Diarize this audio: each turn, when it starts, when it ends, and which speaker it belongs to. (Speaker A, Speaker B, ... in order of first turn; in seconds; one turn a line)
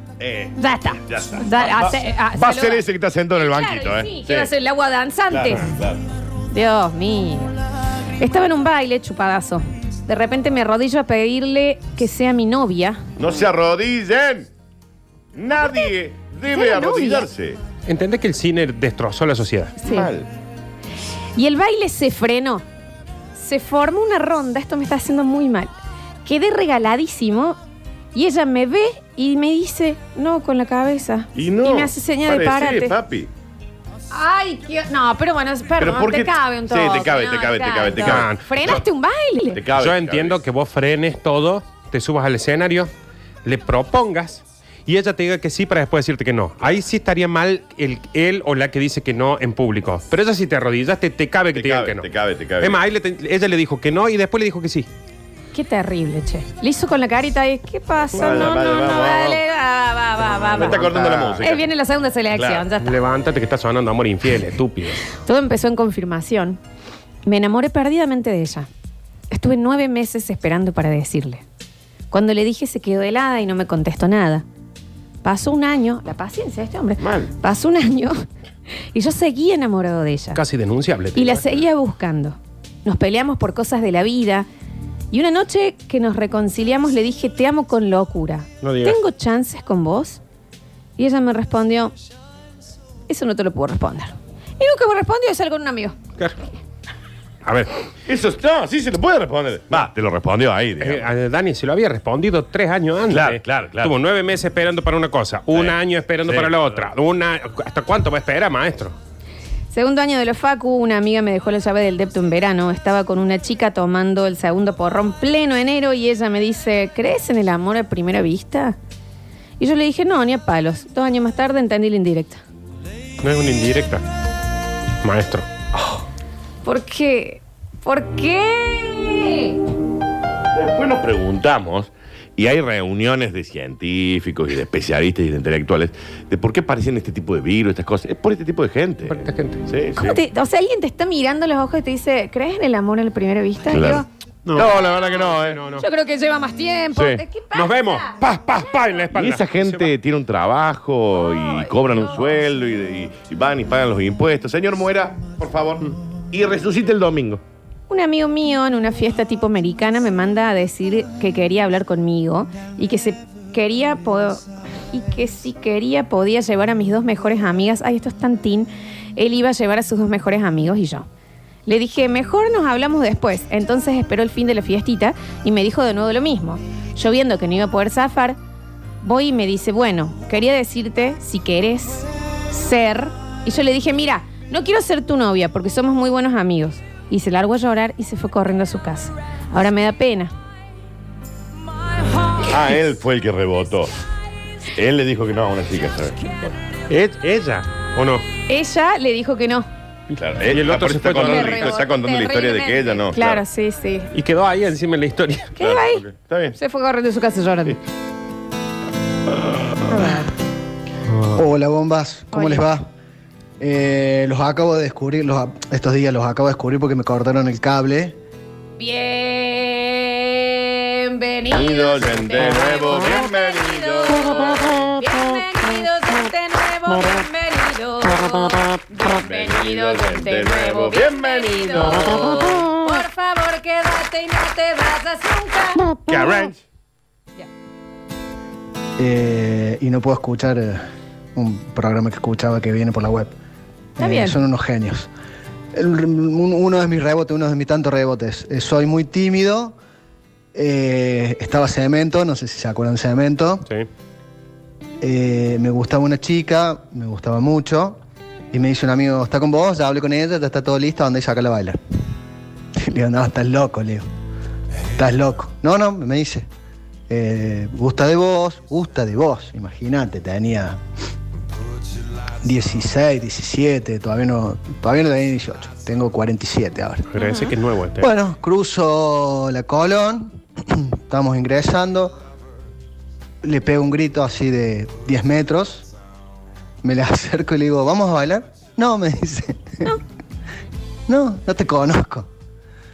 Speaker A: 0.2-0.5
Speaker B: 0.6-2.8
Speaker A: 1.1-4.5
Speaker B: 3.4-5.7
Speaker A: 5.3-6.0
Speaker B: 6.5-7.5
Speaker B: 8.2-13.0
Speaker A: 13.2-14.5
Speaker A: 15.3-17.6
Speaker B: 16.5-17.3
Speaker C: 17.9-19.8
Speaker B: 19.8-20.1
Speaker A: 19.8-20.3
Speaker B: 21.4-22.6
Speaker B: 23.4-25.7
Speaker B: 26.2-27.6
Speaker B: 28.1-33.0
Speaker A: 31.3-33.3
Speaker B: 34.1-39.6
Speaker A: 35.8-38.8
Speaker C: 38.0-38.8
Speaker A: 39.5-40.4
Speaker C: 39.8-42.9
Speaker C: 43.4-52.1
Speaker A: 51.5-52.8
Speaker C: 52.6-54.9
Speaker B: 55.5-62.9
Speaker A: 58.1-59.4
Speaker A: 60.4-61.6
Speaker C: 61.1-61.3
Speaker A: 62.3-62.6
Speaker C: 62.8-65.0
Speaker B: 65.2-66.6
Speaker B: 67.2-68.7
Speaker B: 69.3-71.4
Speaker B: 72.1-74.4
Speaker B: 75.2-78.2
Speaker A: 77.0-77.3
Speaker B: 78.9-80.4
Speaker C: 80.3-81.6
Speaker B: 81.1-84.5
Speaker B: 85.1-90.2
Speaker C: 88.6-89.0
Speaker B: 91.0-91.9
Speaker B: 93.1-96.0
Speaker C: 97.4-97.7
Speaker A: 98.0-101.1
Speaker C: 100.8-109.0
Speaker A: 103.1-103.9
Speaker A: 105.5-106.9
Speaker B: 109.7-118.8
Speaker B: 119.6-122.4
Speaker C: 123.2-124.0
Speaker C: 125.0-125.5
Speaker B: 126.6-129.6
Speaker A: 130.5-140.2
Speaker C: 139.1-139.6
Speaker B: 139.9-144.1
Speaker A: 143.7-145.6
Speaker C: 144.4-145.8
Speaker B: 145.8-148.2
Speaker A: 146.9-147.2
Speaker C: 147.5-149.9
Speaker B: 148.7-149.0
Speaker A: 149.1-157.4
Speaker B: 151.3-152.2
Speaker B: 157.9-171.1
Speaker B: 171.7-178.4
Speaker B: 179.0-190.3
Speaker A: 192.5-193.9
Speaker A: 194.7-196.2
Speaker C: 196.9-198.2
Speaker B: 198.5-199.7
Speaker C: 200.2-201.8
Speaker A: 200.2-203.4
Speaker B: 201.2-204.1
Speaker C: 204.1-205.5
Speaker B: 205.6-206.0
Speaker A: 205.6-206.6
Speaker B: 206.5-207.8
Speaker B: 209.9-210.3
Speaker D: 211.3-212.9
Speaker B: 212.3-212.7
Speaker D: 213.6-218.2
Speaker B: 218.8-235.9
Speaker A: 221.5-224.9
Speaker A: 229.0-232.6
Speaker A: 236.1-236.6
Speaker D: 239.0-240.8
Speaker D: 241.3-243.3
Speaker D: 244.0-245.1
Speaker B: 244.0-244.4
Speaker D: 245.7-249.7
Speaker D: 250.5-253.7
Speaker D: 255.0-258.0
Speaker D: 258.5-261.8
Speaker D: 262.8-264.0
Speaker D: 265.0-266.4
Speaker D: 267.1-270.8
Speaker D: 272.4-277.1
Speaker C: 277.1-278.1
Speaker B: 277.1-277.5
Speaker D: 278.0-282.1
Speaker D: 283.4-285.9
Speaker D: 286.8-289.9
Speaker D: 291.1-292.3